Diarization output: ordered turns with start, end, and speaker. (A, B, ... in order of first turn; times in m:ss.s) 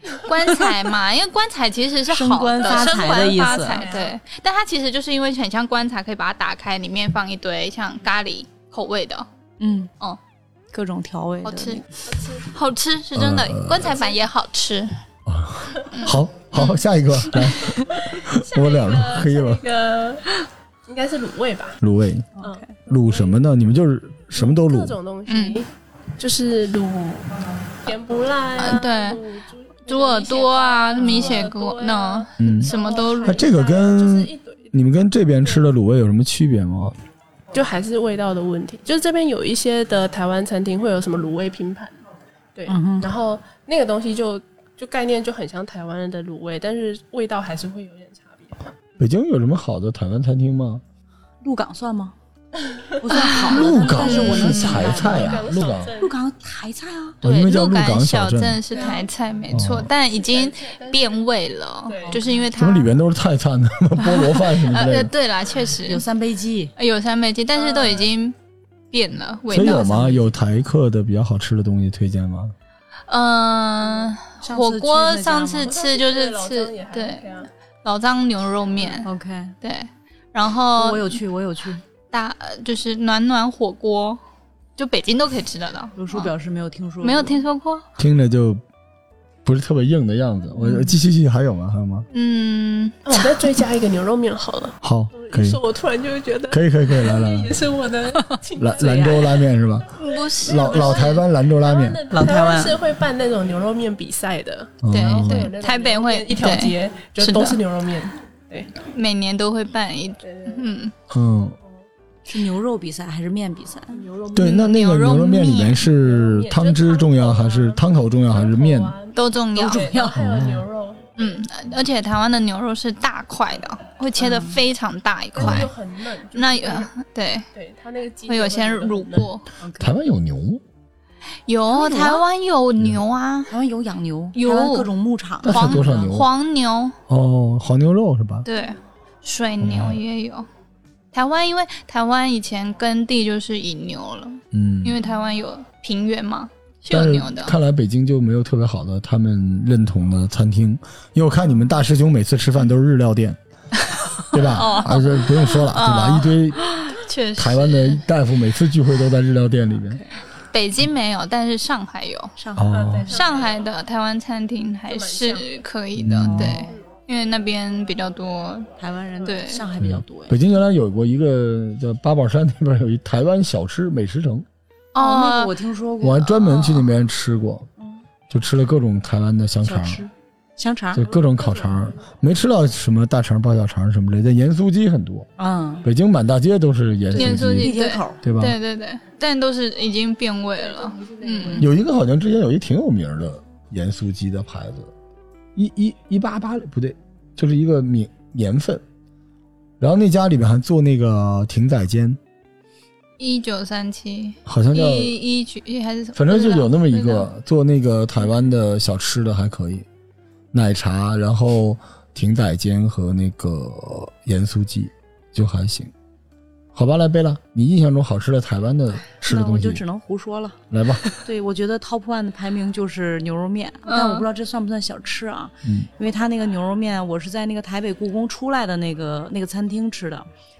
0:00.2-0:09.3 A
0:02.1-0:03.8 B
0:02.5-0:04.1 C
0:09.6-0:09.9 B
0:10.7-0:11.8 B
0:11.4-0:11.8 A
0:12.0-0:12.5 C
0:12.4-0:14.9 A
0:13.1-0:14.0 D
0:13.9-0:14.2 C
0:15.2-0:19.6 D
0:15.8-0:16.1 C
0:15.9-0:16.8 A
0:17.5-0:21.8 C
0:21.8-0:25.0 D
0:22.4-0:22.7 B
0:22.4-0:23.4 C
0:24.4-0:34.7 C
0:25.3-0:25.6 A
0:28.6-0:29.2 A
0:29.8-0:33.5 A
0:32.4-0:32.7 D
0:33.2-0:37.0 D
0:37.5-0:42.0 C
0:42.5-0:48.6 C
0:42.7-0:43.1 B
0:49.0-0:50.8 D
0:51.4-0:52.1 B
0:52.7-0:56.1 C
0:53.0-0:55.4 B
0:53.1-0:53.4 A
0:53.4-0:55.9 D
0:54.0-0:55.0 A
0:56.0-0:57.2 B
0:57.2-1:02.9 A
0:57.2-0:58.6 D
0:58.7-0:59.1 C
0:59.5-0:59.9 D
1:00.1-1:01.2 C
1:01.9-1:02.5 C
1:02.5-1:05.1 D
1:04.1-1:06.0 A
1:05.8-1:06.7 B
1:06.8-1:08.4 A
1:07.5-1:08.1 C
1:08.9-1:10.2 A
1:09.5-1:12.5 D
1:09.6-1:10.3 B
1:13.1-1:19.1 A
1:14.4-1:15.7 B
1:15.5-1:17.5 C
1:19.0-1:19.6 B
1:19.6-1:21.2 A
1:20.8-1:21.8 B
1:22.1-1:24.2 A
1:24.8-1:26.3 A
1:26.0-1:27.4 B
1:27.0-1:27.8 A
1:28.0-1:28.6 D
1:29.4-1:32.1 D
1:30.6-1:31.0 B
1:32.1-1:33.0 A
1:33.0-1:39.5 C
1:34.8-1:35.6 D
1:36.5-1:37.5 D
1:38.6-1:42.0 D
1:39.9-1:41.2 A
1:40.4-1:48.8 C
1:42.1-1:42.8 B
1:44.8-1:45.5 D
1:44.9-1:47.6 A
1:48.8-1:50.9 A
1:50.2-1:50.7 C
1:51.1-1:51.6 D
1:52.2-1:54.0 B
1:53.9-1:54.6 C
1:54.3-1:58.9 D
1:54.4-1:55.8 A
1:55.9-2:01.4 C
1:59.1-1:59.9 A
1:59.6-2:00.2 B
2:00.0-2:00.6 D
2:01.2-2:05.7 A
2:04.2-2:04.6 B
2:05.3-2:06.9 C
2:05.4-2:05.7 D
2:06.3-2:07.5 A
2:07.5-2:09.2 C
2:08.3-2:09.5 A
2:09.2-2:10.6 D
2:09.6-2:09.9 B
2:11.4-2:13.5 A
2:11.7-2:12.2 B
2:13.5-2:15.9 B
2:14.3-2:14.9 A
2:15.4-2:16.3 D
2:15.4-2:17.0 A
2:17.1-2:18.4 D
2:18.4-2:20.5 A
2:19.6-2:20.0 D
2:21.1-2:27.5 A
2:24.5-2:25.0 D
2:26.9-2:33.4 D
2:34.2-2:38.0 A
2:34.3-2:36.7 D
2:37.4-2:40.0 D
2:40.5-2:42.3 A
2:42.4-2:43.0 B
2:42.6-2:43.2 D
2:42.6-2:43.6 C
2:43.1-2:48.7 A
2:44.9-2:45.5 C
2:46.0-2:46.6 D
2:46.2-2:46.7 B
2:48.8-2:50.4 B
2:49.2-2:49.6 A
2:49.8-2:54.4 D
2:54.9-2:55.5 A
2:55.0-2:56.8 B
2:56.0-2:57.7 D
2:58.3-3:00.0 D
2:59.6-3:01.0 B
3:00.9-3:05.3 D
3:01.0-3:02.0 C
3:05.4-3:05.8 B
3:05.8-3:08.6 D
3:07.1-3:08.2 B
3:07.1-3:11.7 A
3:10.6-3:11.7 C
3:11.6-3:14.9 D
3:15.5-3:18.8 D
3:19.8-3:22.2 D
3:23.2-3:27.3 A
3:24.4-3:25.2 D
3:26.2-3:29.8 D
3:30.5-3:35.9 D
3:36.7-3:39.8 D
3:39.2-3:40.6 B
3:40.7-3:41.1 D
3:41.1-3:50.3 B
3:43.9-3:44.2 A